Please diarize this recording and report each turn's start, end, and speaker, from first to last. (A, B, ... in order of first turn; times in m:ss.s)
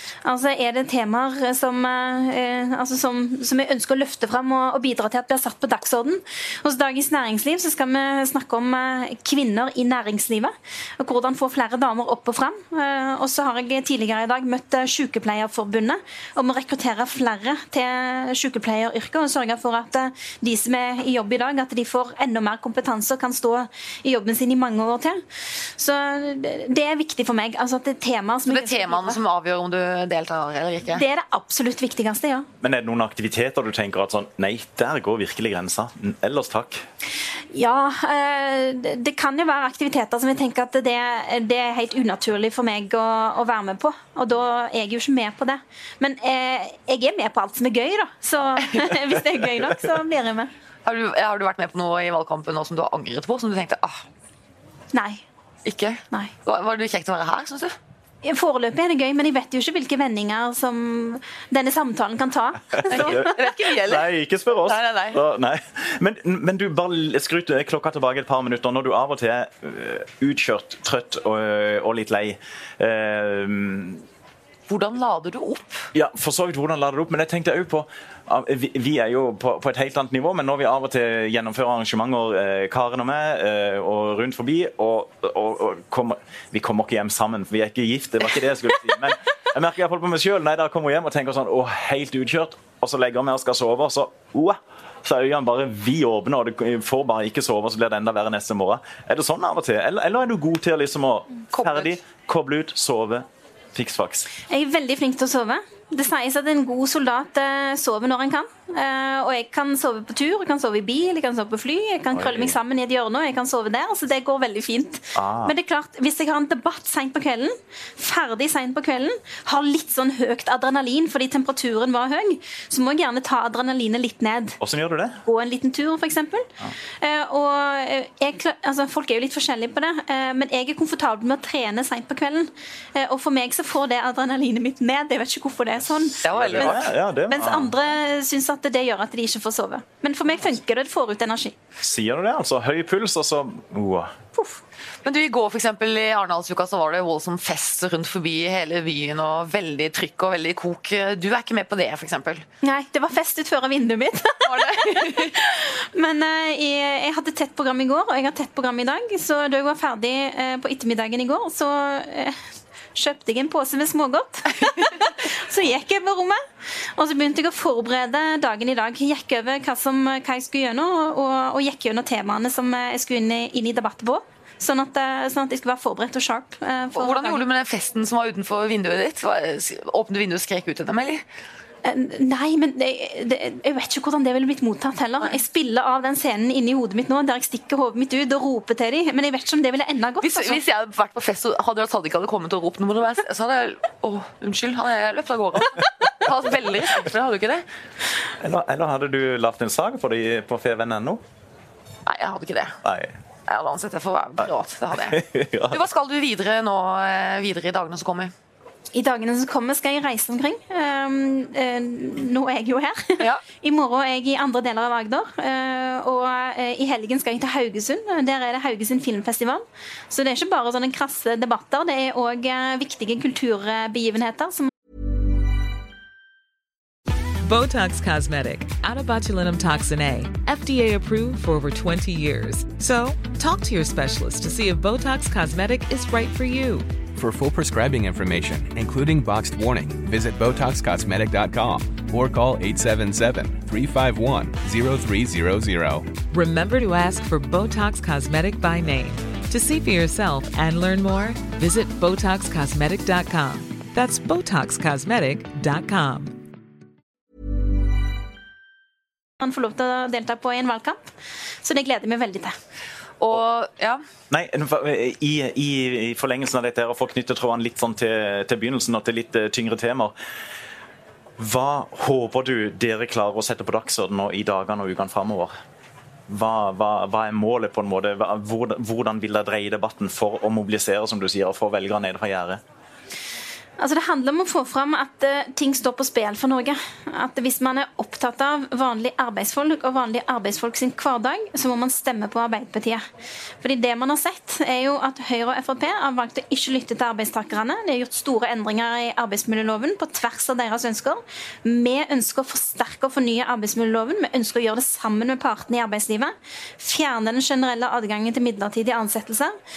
0:00.2-0:29.2 A
0:28.5-0:31.0 B
0:30.9-0:32.5 A
0:32.6-0:36.8 C
0:37.5-0:50.5 A
0:50.8-0:54.0 B
0:54.9-0:55.2 A
0:55.6-0:57.7 B
0:58.2-1:03.5 A
1:02.7-1:14.0 C
1:02.9-1:05.2 B
1:14.7-1:15.9 B
1:15.9-1:44.3 C
1:41.6-1:41.9 B
1:44.5-2:04.6 A
1:52.1-1:52.6 C
1:55.1-1:55.5 C
2:04.6-2:05.2 C
2:05.2-2:21.5 A
2:16.2-2:16.9 B
2:16.2-2:17.8 C
2:21.8-2:24.2 C
2:25.0-2:32.4 B
2:32.6-2:42.4 A
2:34.4-2:35.4 B
2:42.9-2:46.4 A
2:47.0-2:57.4 A
2:56.9-3:01.2 B
3:01.8-3:10.6 A
3:10.2-3:17.6 B
3:18.4-3:21.2 C
3:22.0-3:22.8 B
3:22.8-3:23.1 C
3:23.5-3:28.3 B
3:25.0-3:25.8 C
3:28.9-3:44.7 A
3:47.4-3:57.0 D
3:57.1-4:06.2 E
4:06.3-4:16.4 D
4:19.4-4:21.1 A
4:21.6-4:22.5 A
4:23.2-4:24.0 B
4:24.3-4:30.1 C
4:31.4-4:35.5 C
4:36.3-4:42.6 C
4:43.8-4:53.0 A
4:53.6-5:09.5 A